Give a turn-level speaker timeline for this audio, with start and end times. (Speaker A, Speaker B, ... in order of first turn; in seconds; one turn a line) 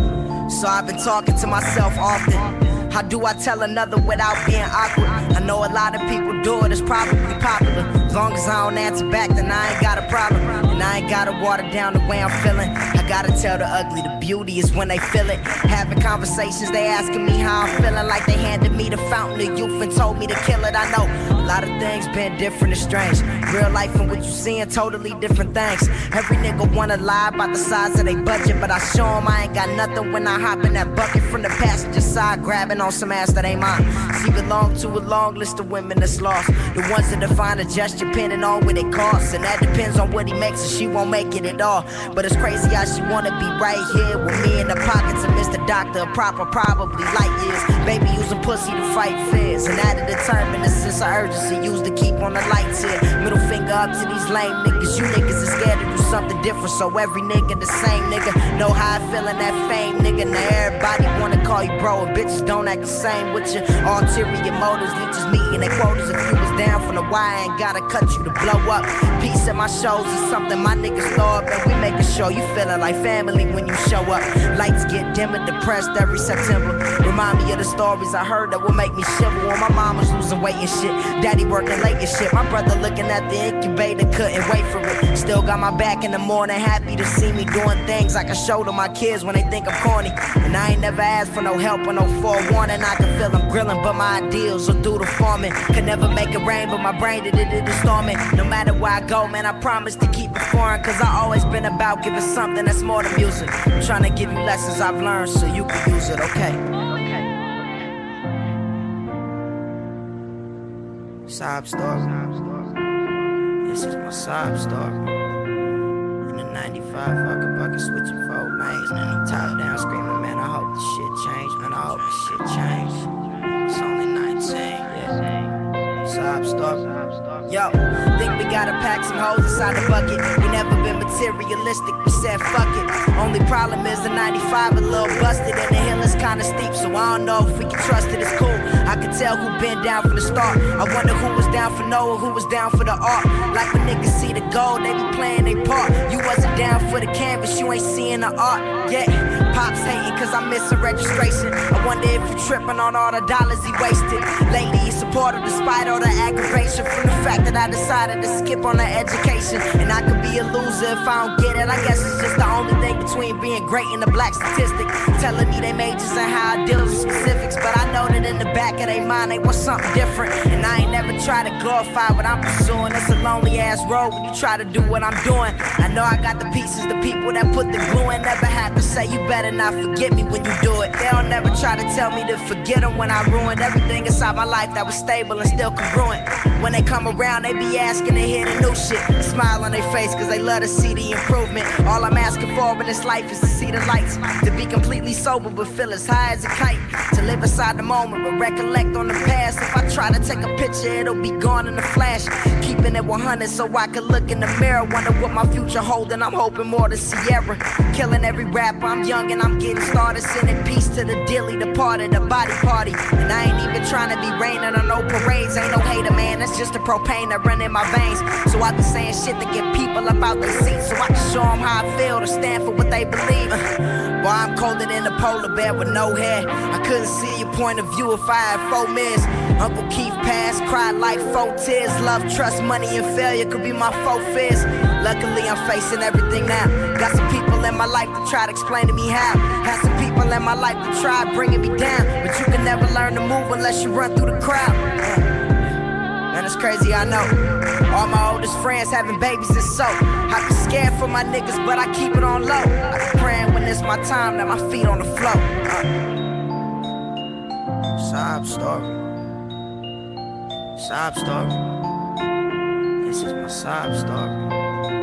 Speaker A: 0.5-107.3
Speaker A: 111.3-112.7
Speaker A: 113.6-115.0
Speaker A: 116.3-123.1
Speaker A: 123.7-125.2
Speaker A: 126.0-223.6
Speaker A: 224.2-245.8
Speaker A: 246.3-247.4
Speaker A: 247.9-255.9
Speaker A: 258.0-259.0
Speaker A: 260.8-261.6
Speaker A: 263.0-264.4